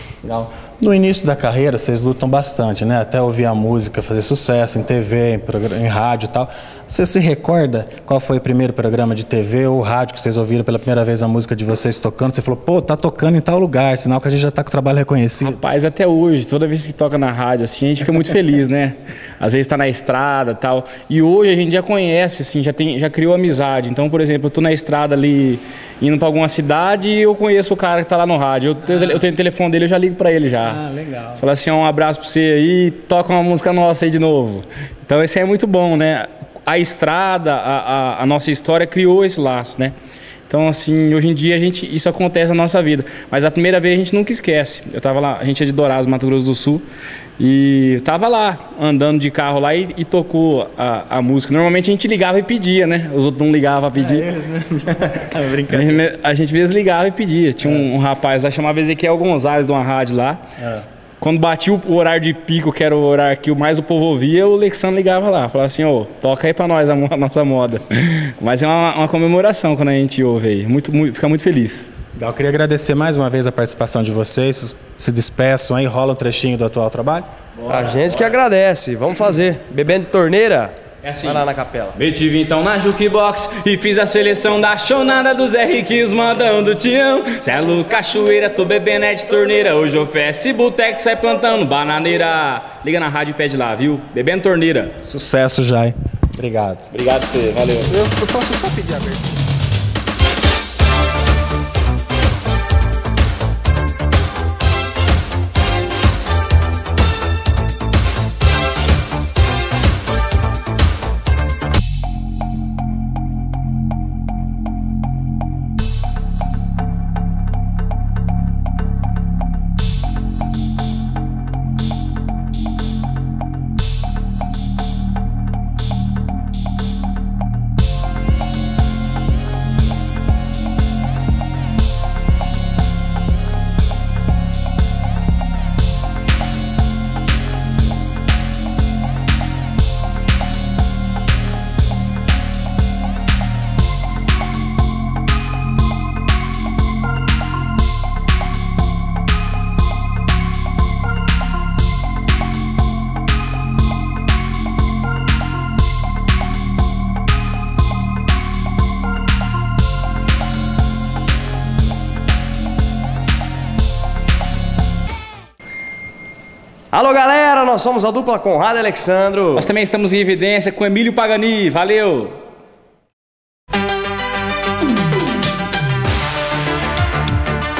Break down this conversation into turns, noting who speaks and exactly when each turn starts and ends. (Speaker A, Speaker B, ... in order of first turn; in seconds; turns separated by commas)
Speaker A: 0.2-15.6, Speaker B: 15.4-30.8, Speaker A: 28.9-29.2, Speaker A: 30.6-31.4, Speaker B: 31.4-39.9, Speaker B: 40.5-46.8, Speaker B: 47.4-54.3, Speaker A: 54.0-56.0, Speaker B: 55.7-60.4, Speaker B: 61.2-71.9, Speaker A: 72.2-77.2, Speaker B: 77.6-78.3, Speaker C: 77.7-82.0, Speaker B: 81.0-81.4, Speaker B: 81.9-94.9, Speaker A: 95.0-96.9, Speaker B: 96.9-98.0, Speaker A: 97.9-99.4, Speaker C: 166.9-169.7, Speaker B: 169.6-172.4